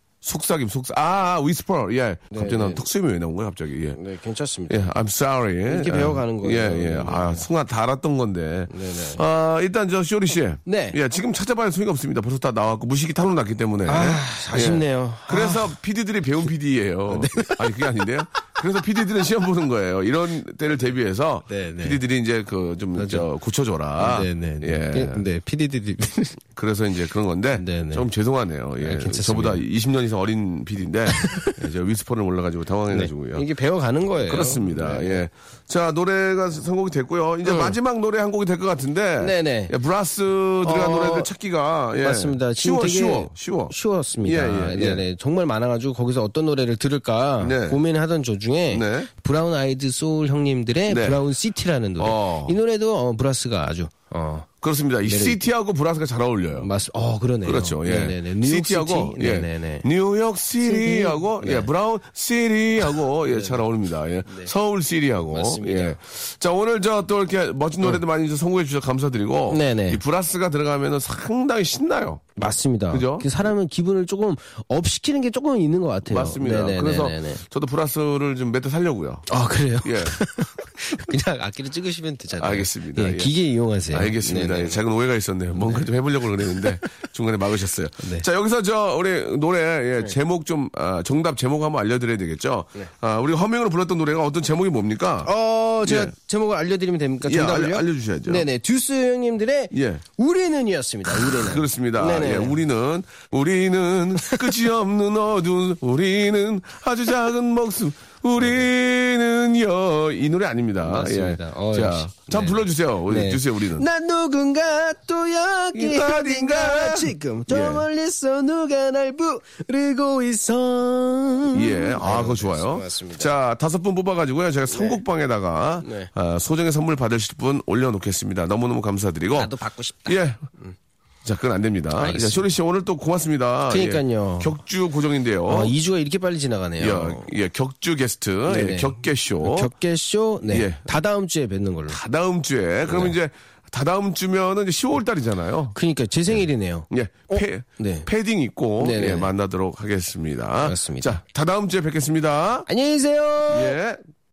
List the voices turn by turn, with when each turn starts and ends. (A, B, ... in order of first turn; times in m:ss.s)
0:00.2-0:04.0 A
0:02.3-0:02.8 B
0:04.0-0:05.0 B
0:04.7-0:25.2 A
0:05.7-0:07.5 B
0:08.7-0:09.2 B
0:10.7-0:11.0 B
0:13.9-0:15.8 B
0:17.1-0:17.8 B
0:21.5-0:22.0 B
0:23.0-0:23.3 B
0:24.0-0:26.4 B
0:26.6-0:33.5 A
0:27.6-0:28.1 B
0:28.8-0:29.6 B
0:31.1-0:31.6 B
0:32.9-0:35.2 B
0:34.2-0:45.0 A
0:37.4-0:37.8 B
0:39.2-0:39.7 B
0:40.6-0:41.3 B
0:42.0-0:54.5 B
0:47.4-0:47.8 A
0:48.7-0:49.1 A
0:50.9-0:51.2 A
0:52.0-0:52.6 A
0:54.6-0:56.7 A
0:55.0-0:55.4 B
0:56.6-0:59.9 B
0:57.4-1:12.4 A
1:00.6-1:01.7 B
1:03.3-1:03.6 B
1:04.3-1:04.5 B
1:05.3-1:06.0 B
1:09.5-1:10.0 B
1:12.4-1:17.4 B
1:12.9-1:13.3 A
1:16.0-1:19.3 A
1:19.3-1:24.8 B
1:19.8-1:20.2 A
1:22.4-1:23.3 A
1:23.9-1:35.3 A
1:25.6-1:25.9 B
1:26.4-1:26.9 B
1:28.0-1:28.3 B
1:35.2-1:42.6 B
1:35.8-1:36.1 A
1:37.2-1:38.5 A
1:39.7-1:40.0 A
1:41.1-1:53.9 A
1:44.2-1:44.5 B
1:48.4-1:48.6 B
1:50.8-2:03.3 B
1:55.7-1:57.8 A
2:01.5-2:09.6 A
2:04.7-2:05.0 B
2:05.8-2:06.1 B
2:09.3-2:10.8 B
2:10.1-2:10.5 A
2:11.2-2:15.7 A
2:12.0-2:12.5 B
2:13.7-2:14.6 B
2:15.5-2:17.3 B
2:16.8-2:19.7 A
2:18.5-2:22.0 B
2:20.4-2:20.9 A
2:21.9-2:25.8 A
2:22.9-2:23.2 B
2:25.7-2:28.1 B
2:26.9-2:32.7 A
2:28.8-2:29.3 B
2:30.6-2:31.2 B
2:32.7-2:33.8 B
2:33.5-2:34.0 A